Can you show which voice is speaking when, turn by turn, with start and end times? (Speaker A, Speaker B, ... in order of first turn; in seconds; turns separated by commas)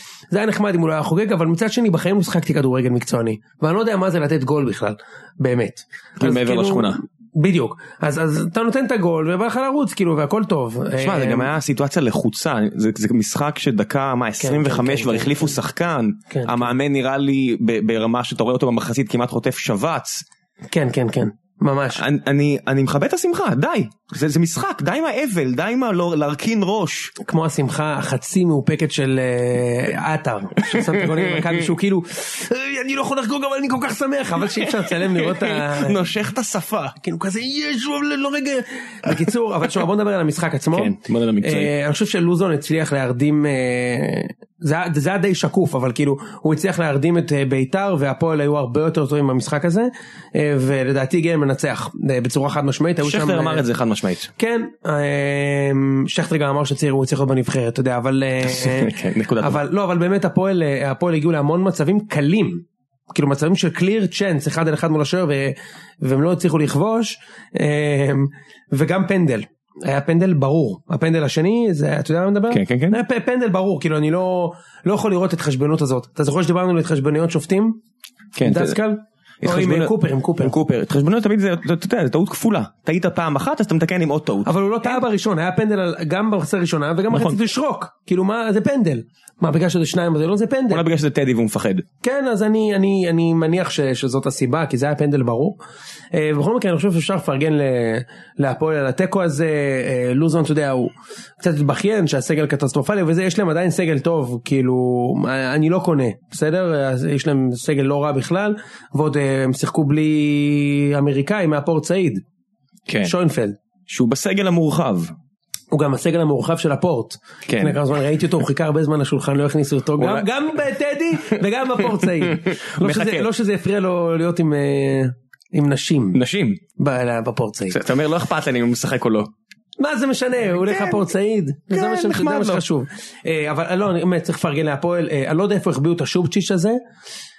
Speaker A: 0.3-11.5, Speaker B: 6.2-7.0, Speaker B: 11.0-20.2, Speaker A: 14.4-15.6, Speaker A: 16.3-16.7, Speaker A: 20.7-22.0, Speaker B: 22.0-27.1, Speaker A: 27.2-36.0, Speaker B: 30.6-31.6, Speaker B: 34.6-37.0, Speaker A: 37.0-53.6, Speaker B: 40.7-41.7, Speaker B: 53.0-54.3, Speaker A: 54.4-77.8, Speaker B: 58.4-59.6, Speaker B: 72.5-73.0, Speaker B: 78.4-78.8, Speaker A: 78.4-80.5, Speaker B: 79.4-85.0, Speaker A: 84.5-90.8, Speaker B: 87.1-87.4, Speaker B: 90.7-91.9, Speaker A: 92.0-95.6, Speaker A: 96.1-112.2, Speaker B: 112.9-113.1, Speaker A: 113.0-113.6, Speaker B: 113.9-115.1, Speaker A: 115.7-126.2, Speaker B: 117.5-117.8, Speaker B: 120.0-120.3, Speaker B: 121.3-123.3, Speaker B: 126.1-126.6, Speaker A: 126.8-127.8, Speaker B: 127.7-129.3, Speaker A: 129.8-136.8, Speaker B: 130.6-131.0, Speaker B: 131.7-132.6